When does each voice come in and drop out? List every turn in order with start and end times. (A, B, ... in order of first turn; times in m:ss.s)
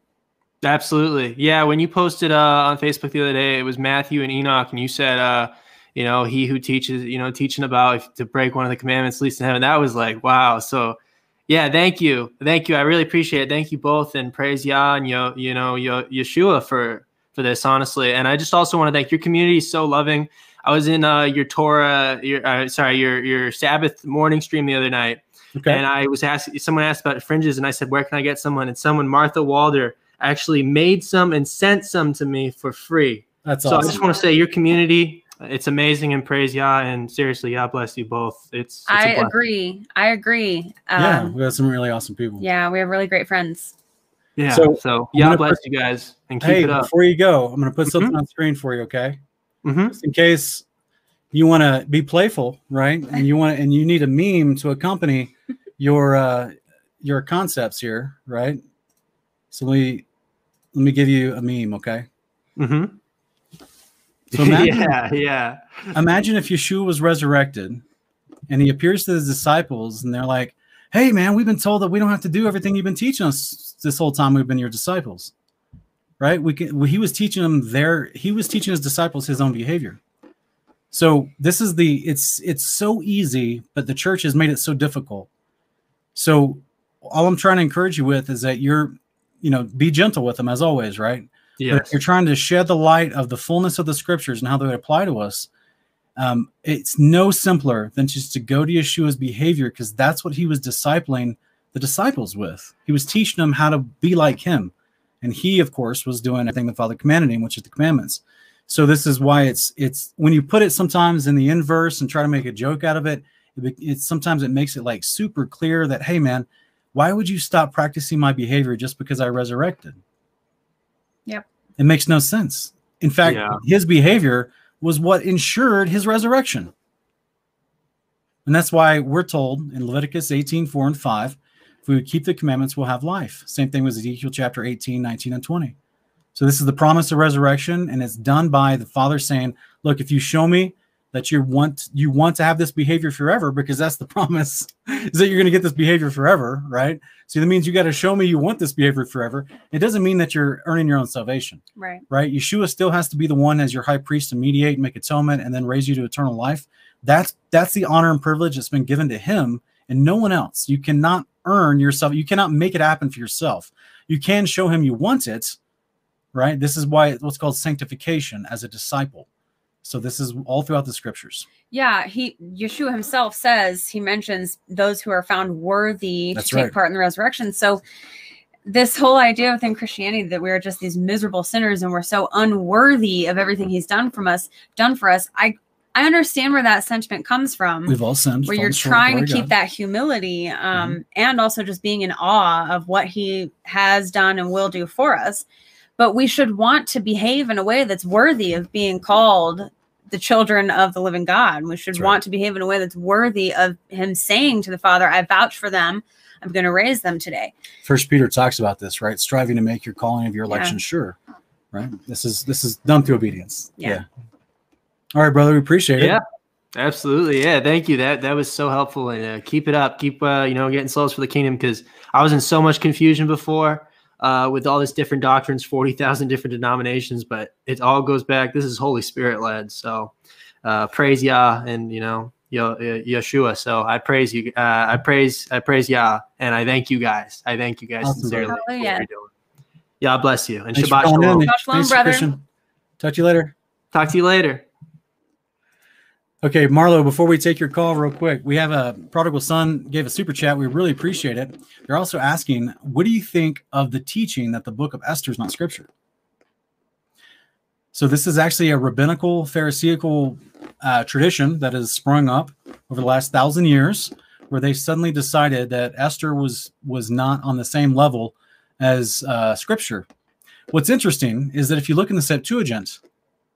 0:00.6-0:39.3 A
0:25.5-0:25.8 B
0:33.4-0:34.0 B
0:38.9-0:41.3 C
0:41.0-0:42.4 B
0:42.4-0:43.7 C
0:44.4-0:46.9 A
0:44.5-0:45.6 B
0:46.4-0:49.2 B
0:49.6-0:50.0 A
0:49.9-0:50.6 B
0:51.3-0:58.6 B
0:59.5-1:00.0 B
1:00.7-1:02.1 B
1:02.6-1:03.0 A
1:04.3-1:05.0 B
1:04.3-1:05.9 A
1:05.9-1:07.8 B
1:08.5-1:15.3 B
1:16.2-1:20.0 B
1:20.9-1:25.3 B
1:26.1-1:35.5 B
1:31.6-1:31.9 A
1:36.2-2:00.0 B
2:01.8-2:06.7 B
2:03.2-2:03.6 A
2:08.4-2:15.7 B
2:16.3-2:45.6 B
2:31.8-2:32.0 C
2:46.3-2:49.3 B
2:49.8-2:51.5 B
2:51.7-2:57.8 C
2:56.3-2:56.7 B
2:58.6-3:15.4 C
3:07.9-3:09.5 B
3:16.0-3:27.5 C
3:27.8-3:31.2 B
3:30.5-3:30.8 C
3:31.7-3:34.0 B
3:35.1-3:36.2 B
3:36.7-3:59.3 A
3:58.0-3:58.6 B
3:58.5-3:59.1 C
4:00.0-4:01.5 A
4:00.7-4:02.4 B
4:01.4-4:02.3 C
4:03.0-4:03.5 B
4:03.9-4:04.6 A
4:06.4-4:15.9 B
4:17.9-4:30.0 B
4:30.7-4:33.0 B